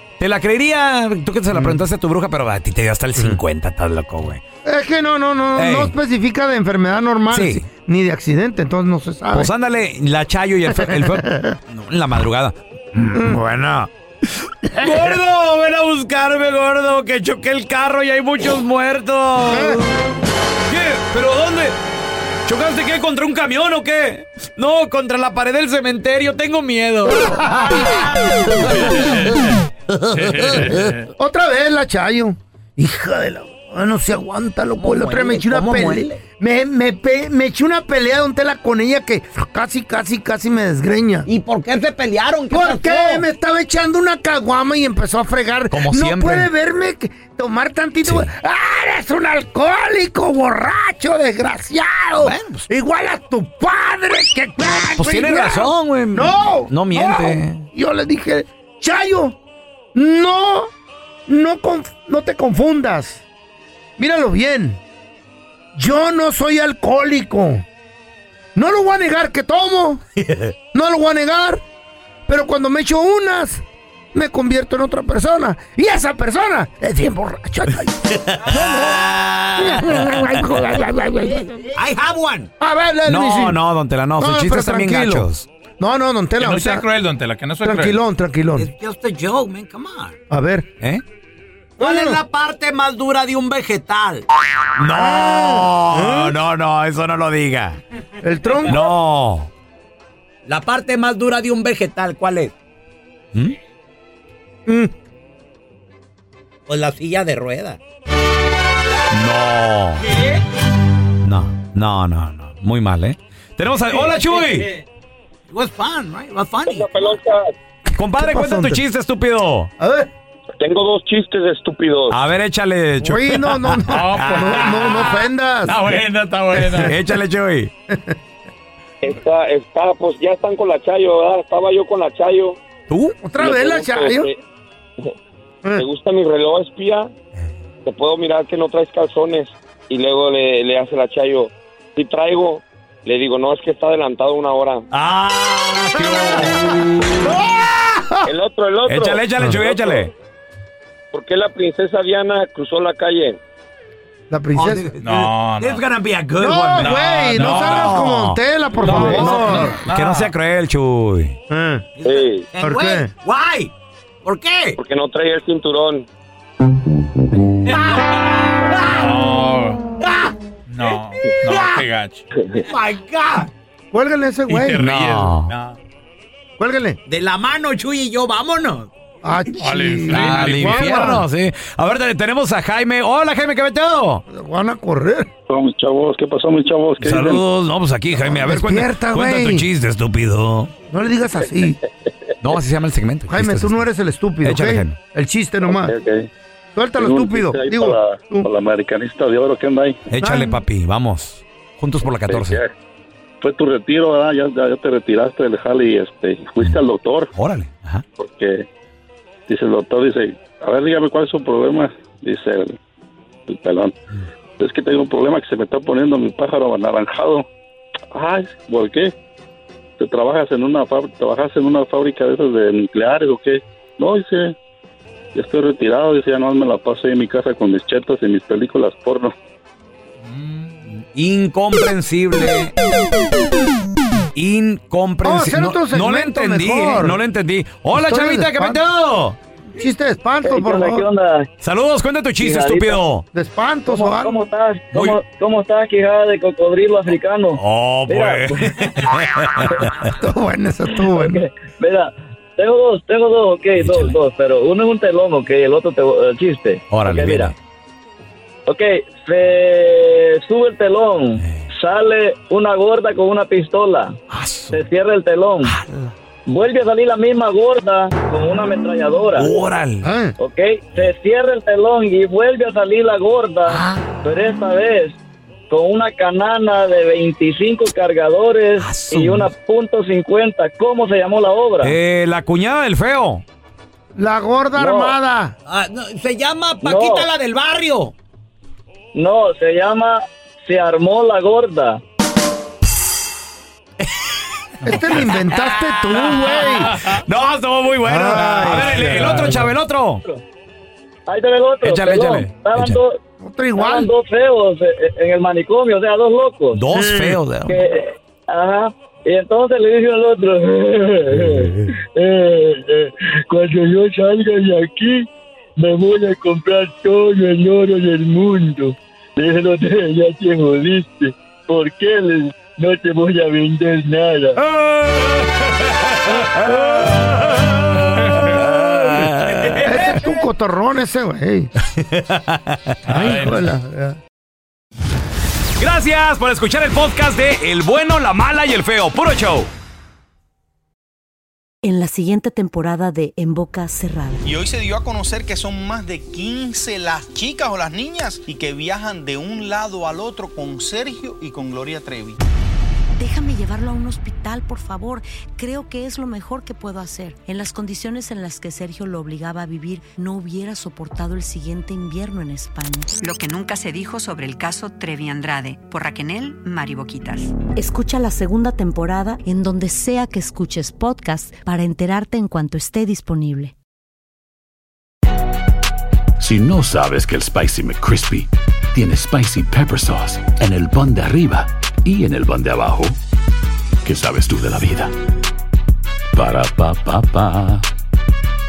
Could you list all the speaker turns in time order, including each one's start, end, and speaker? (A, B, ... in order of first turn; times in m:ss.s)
0:00.2-0:04.4 A
0:01.5-0:01.8 B
0:04.6-0:09.5 B
0:05.6-0:05.9 A
0:07.3-0:07.6 A
0:09.3-0:13.9 A
0:10.7-0:11.6 B
0:13.1-0:13.4 B
0:14.5-0:20.0 A
0:14.7-0:15.2 B
0:19.5-0:19.8 B
0:20.7-0:21.8 A
0:22.5-0:27.6 A
0:27.1-0:28.0 B
0:30.3-0:30.8 C
0:31.2-0:41.3 B
0:34.8-0:36.1 D
0:41.3-0:43.1 D
0:42.5-0:59.4 B
0:42.9-0:43.2 A
0:45.7-0:46.5 A
0:48.0-0:48.3 A
0:52.2-0:52.7 A
0:55.0-0:57.7 A
0:59.9-1:00.7 B
1:01.3-1:03.2 B
1:04.0-1:04.8 B
1:05.7-1:07.7 B
1:08.6-1:10.0 B
1:10.7-1:11.6 B
1:12.3-1:21.7 B
1:21.8-1:22.5 D
1:22.6-1:23.6 B
1:23.1-1:25.5 A
1:24.2-1:25.3 B
1:25.8-1:26.9 B
1:26.4-1:28.0 C
1:27.6-1:28.7 B
1:28.6-1:30.1 D
1:30.3-1:30.7 B
1:31.8-1:32.2 B
1:31.8-1:32.2 A
1:32.1-1:34.2 D
1:34.8-1:37.8 A
1:34.9-1:36.4 B
1:38.2-1:38.9 B
1:38.7-1:39.5 A
1:40.5-1:42.5 D
1:44.7-1:44.9 B
1:46.7-1:47.8 D
1:49.1-1:50.0 A
1:51.2-1:54.7 A
1:54.1-1:54.6 D
1:55.5-1:57.1 D
1:56.6-1:57.5 E
1:58.0-1:59.7 A
1:58.1-1:58.8 B
1:59.8-2:00.1 B
2:00.6-2:02.2 E
2:02.1-2:05.2 A
2:03.0-2:05.8 B
2:03.9-2:05.1 C
2:05.7-2:06.9 C
2:06.5-2:07.7 A
2:06.6-2:06.9 B
2:07.9-2:08.2 B
2:09.0-2:12.6 E
2:12.9-2:13.2 A
2:13.2-2:14.3 B
2:13.4-2:14.4 E
2:15.8-2:17.1 E
2:17.8-2:24.8 E
2:24.9-2:26.9 A
2:27.2-2:28.3 B
2:28.2-2:30.1 E
2:28.9-2:30.1 A
2:31.1-2:33.4 E
2:34.3-2:35.0 B
2:34.6-2:36.4 D
2:35.0-2:35.9 C
2:36.3-2:41.4 A
2:36.4-2:39.8 B
2:36.8-2:37.8 C
2:38.9-2:40.3 C
2:41.5-2:41.9 B
2:42.0-2:42.5 E
2:42.0-2:43.7 D
2:42.6-2:43.1 B
2:44.2-2:44.7 D
2:44.8-2:46.1 E
2:48.8-2:49.8 C
2:50.7-2:52.3 C
2:52.7-2:53.5 D
2:53.9-2:54.8 B
2:54.5-2:55.8 C
2:54.8-2:55.5 A
2:56.6-2:57.0 B
2:57.1-2:58.9 D
2:59.2-3:01.3 B
2:59.6-3:01.1 C
3:00.1-3:04.2 A
3:04.3-3:05.3 B
3:05.5-3:07.4 F
3:07.0-3:10.7 A
3:08.1-3:09.7 B
3:10.9-3:11.8 B
3:12.4-3:13.8 A
3:13.3-3:15.9 B
3:14.4-3:15.0 A
3:15.6-3:16.3 F
3:16.8-3:18.5 B
3:17.0-3:20.0 F
3:20.1-3:22.6 A
3:20.2-3:20.6 B
3:22.3-3:22.7 F
3:23.4-3:27.3 F
3:27.3-3:28.0 A
3:28.2-3:28.7 F
3:29.5-3:32.8 F
3:33.5-3:34.0 F
3:34.6-3:37.5 F
3:38.1-3:39.1 F
3:40.0-3:44.6 F
3:45.4-3:49.3 F
3:50.9-3:52.8 A
3:54.4-3:59.4 A
3:55.2-3:57.2 B
3:57.9-3:58.8 B
3:59.7-4:01.1 B
4:00.4-4:01.5 G
4:01.6-4:03.2 A
4:02.4-4:03.0 G
4:03.3-4:04.4 B
4:03.9-4:09.1 G
4:04.9-4:05.2 A
4:07.6-4:10.1 A
4:10.2-4:11.4 B
4:11.0-4:17.5 G
4:13.8-4:14.2 A
4:16.9-4:17.6 A
4:18.7-4:24.2 G
4:21.4-4:21.7 A
4:24.3-4:24.8 A
4:24.7-4:25.8 G
4:25.6-4:26.1 A
4:26.5-4:29.6 G
4:29.4-4:30.1 A
4:30.0-4:30.4 B
4:30.4-4:35.2 G
4:33.7-4:34.0 A
4:35.7-4:42.0 G
4:38.8-4:39.5 A
4:41.8-4:43.4 A
4:44.2-4:45.6 B
4:44.8-4:45.2 G
4:45.7-4:48.1 D
4:46.8-4:47.3 G
4:49.2-4:52.0 G
4:54.8-4:56.9 B
4:56.2-5:00.2 A
4:58.0-4:59.7 B
5:01.3-5:03.2 G
5:01.8-5:03.0 A
5:03.4-5:04.1 B
5:03.8-5:06.8 G
5:06.8-5:07.8 A
5:06.9-5:07.4 B
5:07.7-5:24.6 G
5:11.4-5:11.9 A
5:24.6-5:30.2 A
5:29.8-5:31.7 B
5:32.0-5:33.0 A
5:33.1-5:34.2 B
5:33.1-5:33.6 C
5:35.8-5:39.7 A
5:41.8-5:44.5 H
5:44.4-5:52.4 I
5:53.2-6:03.1 H
6:03.2-6:07.6 J
6:07.8-6:13.7 H
6:16.4-6:23.2 K
6:24.0-6:25.1 K
6:26.3-6:27.9 K